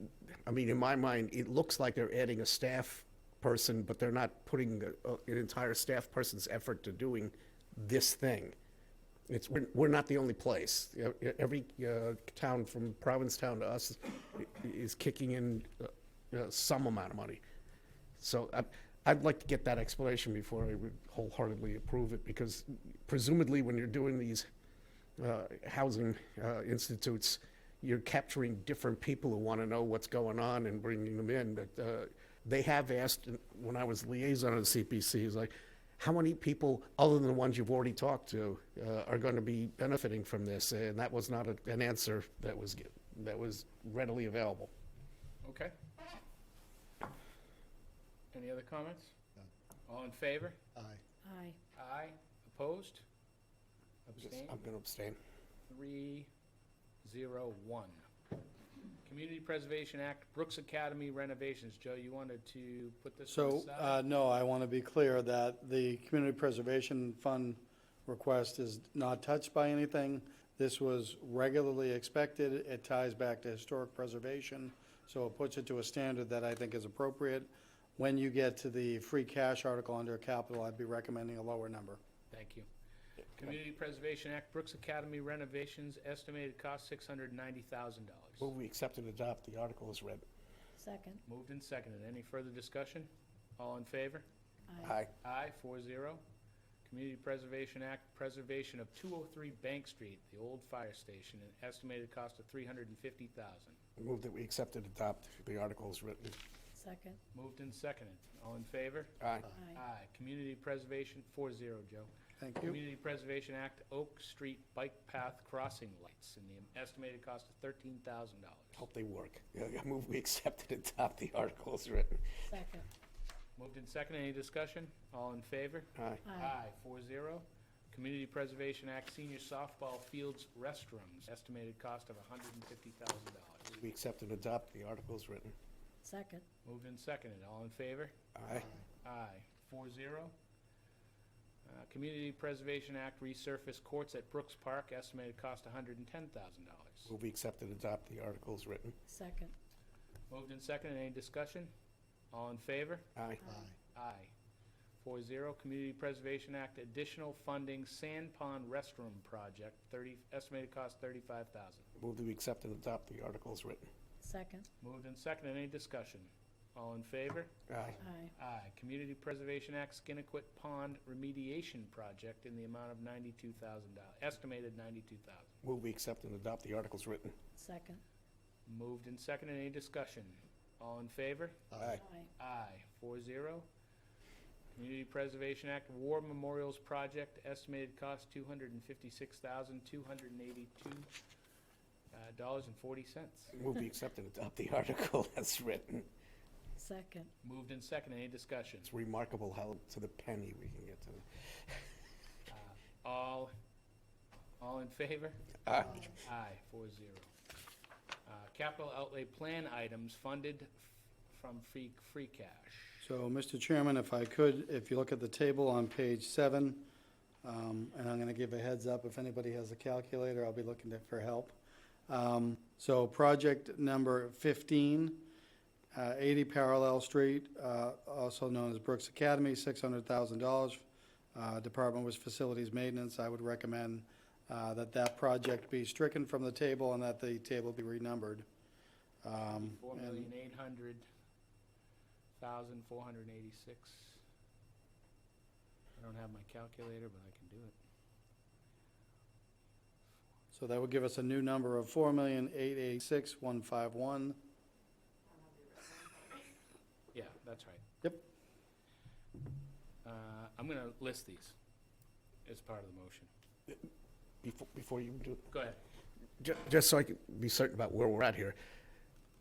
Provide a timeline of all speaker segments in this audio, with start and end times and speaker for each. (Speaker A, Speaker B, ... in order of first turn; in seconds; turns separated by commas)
Speaker A: 0.5-8.6, Speaker A: 9.3-17.4, Speaker A: 18.2-24.5, Speaker A: 25.2-44.7, Speaker B: 45.4-45.7, Speaker B: 48.3-49.1, Speaker B: 49.9-50.6, Speaker C: 51.2-51.6, Speaker B: 51.8-53.0, Speaker B: 54.1-54.6, Speaker A: 54.2-55.2, Speaker B: 55.7-56.3, Speaker B: 57.0-58.1, Speaker B: 59.0-64.0, Speaker D: 63.3-82.0, Speaker B: 82.3-82.7, Speaker B: 83.4-88.5, Speaker A: 88.4-90.2, Speaker C: 90.8-91.2, Speaker B: 91.3-94.2, Speaker A: 94.8-95.1, Speaker B: 95.2-96.2, Speaker B: 96.8-103.8, Speaker A: 104.0-106.4, Speaker C: 106.8-107.2, Speaker B: 107.3-109.2, Speaker A: 109.2-109.5, Speaker C: 109.5-109.8, Speaker B: 109.7-112.1, Speaker D: 112.4-112.8, Speaker B: 112.6-118.8, Speaker A: 118.7-122.2, Speaker C: 122.5-122.8, Speaker B: 123.6-133.7, Speaker A: 126.0-126.2, Speaker C: 126.2-126.5, Speaker A: 133.7-135.5, Speaker C: 136.0-136.4, Speaker B: 136.7-138.1, Speaker A: 138.4-138.7, Speaker B: 139.0-140.3, Speaker B: 141.7-147.1, Speaker A: 147.1-149.0, Speaker C: 149.1-149.5, Speaker B: 150.3-151.7, Speaker B: 152.3-153.1, Speaker A: 153.2-153.5, Speaker C: 153.4-153.7, Speaker B: 153.9-154.3, Speaker B: 155.0-161.9, Speaker A: 162.0-163.9, Speaker C: 164.2-164.7, Speaker B: 164.8-167.5, Speaker A: 167.7-168.0, Speaker C: 168.0-168.3, Speaker B: 168.4-175.5, Speaker A: 175.6-177.3, Speaker C: 177.6-178.0, Speaker B: 178.7-181.7, Speaker A: 181.8-182.0, Speaker C: 181.9-182.3, Speaker B: 182.4-183.7, Speaker B: 184.8-191.1, Speaker B: 192.1-193.6, Speaker A: 193.5-196.1, Speaker C: 196.8-197.3, Speaker B: 197.4-198.9, Speaker A: 198.8-201.2, Speaker B: 202.5-203.5, Speaker B: 204.6-205.4, Speaker A: 205.7-206.0, Speaker B: 206.1-207.3, Speaker B: 208.3-213.1, Speaker D: 213.0-216.9, Speaker D: 217.4-221.6, Speaker D: 222.1-225.3, Speaker D: 225.9-238.5, Speaker D: 239.2-240.3, Speaker B: 239.5-241.1, Speaker B: 242.4-244.2, Speaker B: 246.0-247.8, Speaker D: 250.5-254.4, Speaker B: 257.1-257.8, Speaker B: 260.0-261.6, Speaker B: 262.4-263.3, Speaker A: 264.4-265.5, Speaker B: 265.5-265.8, Speaker A: 266.4-268.6